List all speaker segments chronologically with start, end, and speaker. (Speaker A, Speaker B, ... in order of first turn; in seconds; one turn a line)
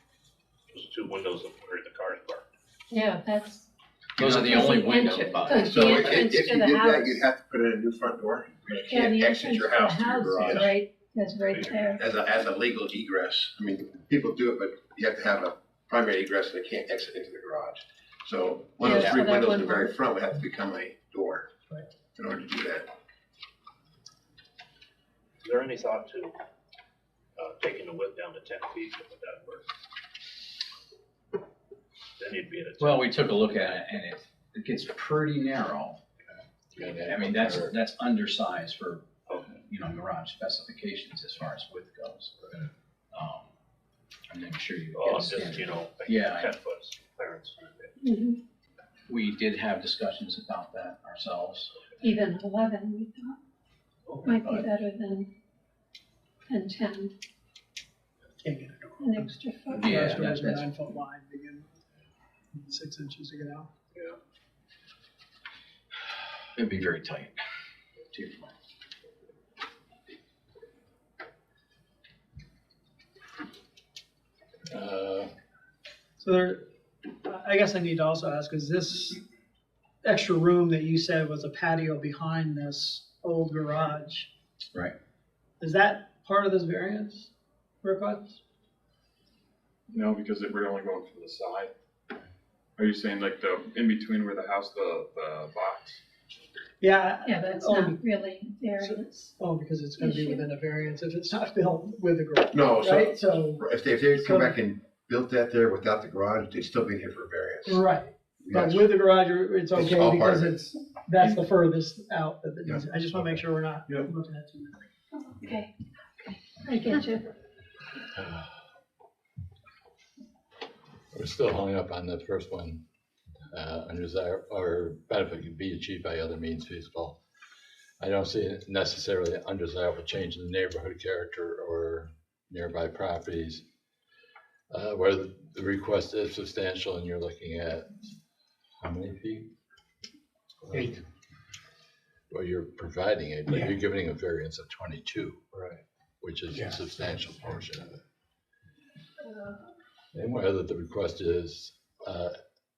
Speaker A: 0.7-2.5
Speaker B: 2.9-3.7
Speaker C: 4.2-6.2
Speaker B: 4.4-7.2
Speaker D: 5.5-10.7
Speaker B: 8.8-12.0
Speaker A: 10.4-10.7
Speaker A: 11.5-12.0
Speaker D: 12.0-21.5
Speaker B: 18.8-19.9
Speaker D: 22.1-22.9
Speaker A: 25.4-26.4
Speaker A: 27.4-29.7
Speaker A: 32.2-33.3
Speaker C: 32.8-36.0
Speaker E: 36.7-37.7
Speaker C: 36.9-42.6
Speaker C: 43.1-43.5
Speaker C: 44.3-46.5
Speaker A: 45.0-47.9
Speaker B: 48.0-48.4
Speaker C: 49.1-51.7
Speaker B: 52.0-53.4
Speaker A: 54.1-54.4
Speaker B: 54.2-55.3
Speaker C: 54.3-54.7
Speaker B: 56.5-57.1
Speaker F: 58.4-61.7
Speaker B: 59.0-59.9
Speaker C: 59.7-60.7
Speaker F: 62.5-63.7
Speaker C: 66.6-67.4
Speaker C: 68.1-68.5
Speaker E: 74.7-75.3
Speaker F: 76.2-76.6
Speaker F: 77.2-79.2
Speaker F: 80.0-84.3
Speaker F: 85.6-87.3
Speaker F: 87.8-88.4
Speaker G: 89.9-91.7
Speaker G: 92.8-96.0
Speaker F: 96.8-98.0
Speaker B: 97.2-99.3
Speaker F: 98.8-103.7
Speaker B: 100.0-100.5
Speaker D: 102.5-107.9
Speaker F: 104.2-104.6
Speaker F: 107.7-114.8
Speaker D: 108.4-108.9
Speaker D: 109.7-110.6
Speaker B: 115.1-115.7
Speaker B: 116.6-117.3
Speaker E: 118.2-118.5
Speaker E: 121.1-122.8
Speaker E: 123.5-127.2
Speaker E: 128.0-133.6
Speaker E: 134.7-137.9
Speaker E: 138.8-139.5
Speaker E: 140.7-141.0
Speaker E: 142.3-145.4
Speaker E: 146.2-148.0
Speaker E: 150.1-152.3